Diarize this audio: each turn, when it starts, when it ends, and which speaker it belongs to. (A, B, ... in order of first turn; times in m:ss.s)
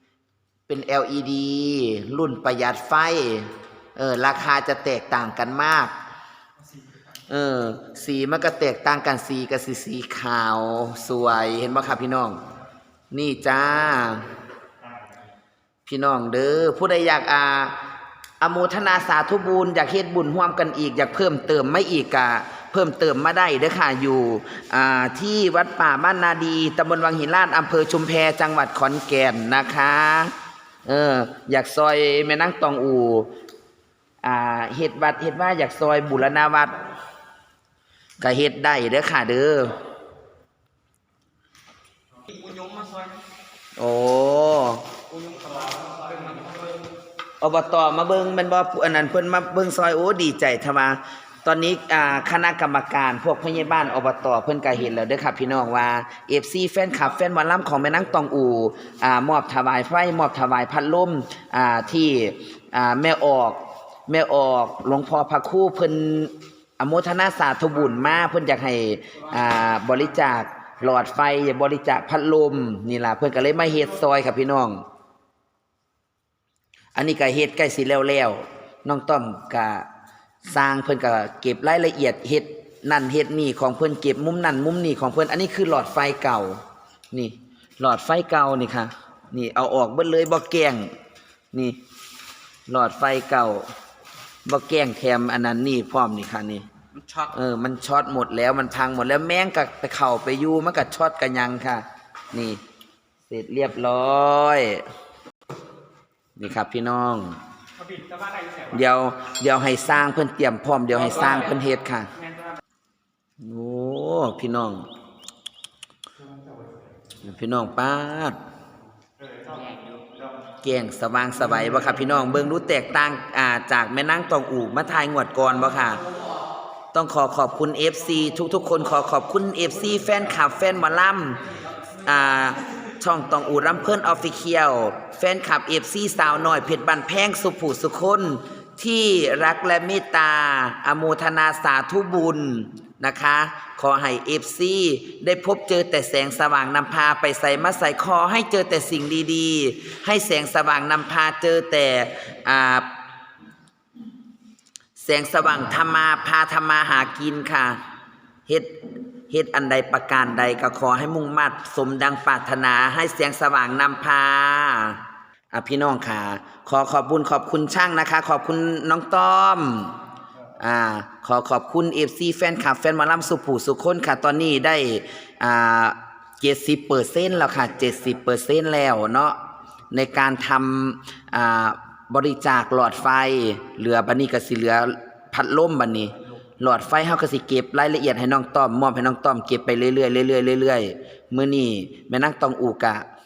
0:00.7-0:05.9 A
0:06.6-0:07.1 B
0:07.3-0:12.4 A
0:13.1-0:14.3 A
0:14.8-0:15.1 B
0:15.8-0:17.8 A
0:18.4-0:30.3 A
0:30.8-0:33.3 A
0:34.2-0:36.8 A
0:38.2-0:39.8 A
0:42.2-0:43.2 C
0:43.8-0:44.8 A
0:45.1-0:46.7 C
0:45.8-0:46.6 B
0:47.4-1:14.8 A
1:16.9-1:19.9 A
1:20.4-1:26.6 A
1:27.1-1:30.9 A
1:31.5-1:31.8 A
1:32.7-1:33.7 A
1:34.4-1:36.7 A
1:36.9-1:37.3 C
1:37.3-1:42.6 A
1:43.3-1:44.8 A
1:46.4-1:47.4 A
1:47.8-1:48.8 B
1:48.7-1:52.1 A
1:51.0-1:51.6 C
1:52.2-1:52.6 B
1:53.4-1:54.9 A
1:56.3-1:56.7 B
1:57.2-1:58.4 A
1:59.2-1:59.8 B
1:59.5-2:00.0 C
2:00.6-2:06.0 A
2:05.8-2:06.4 C
2:06.9-2:11.4 A
2:11.4-2:12.0 C
2:12.0-2:32.9 A
2:35.0-2:37.8 A
2:38.5-2:45.0 A
2:45.5-2:50.0 A
2:50.6-2:59.4 A
2:59.9-3:13.0 A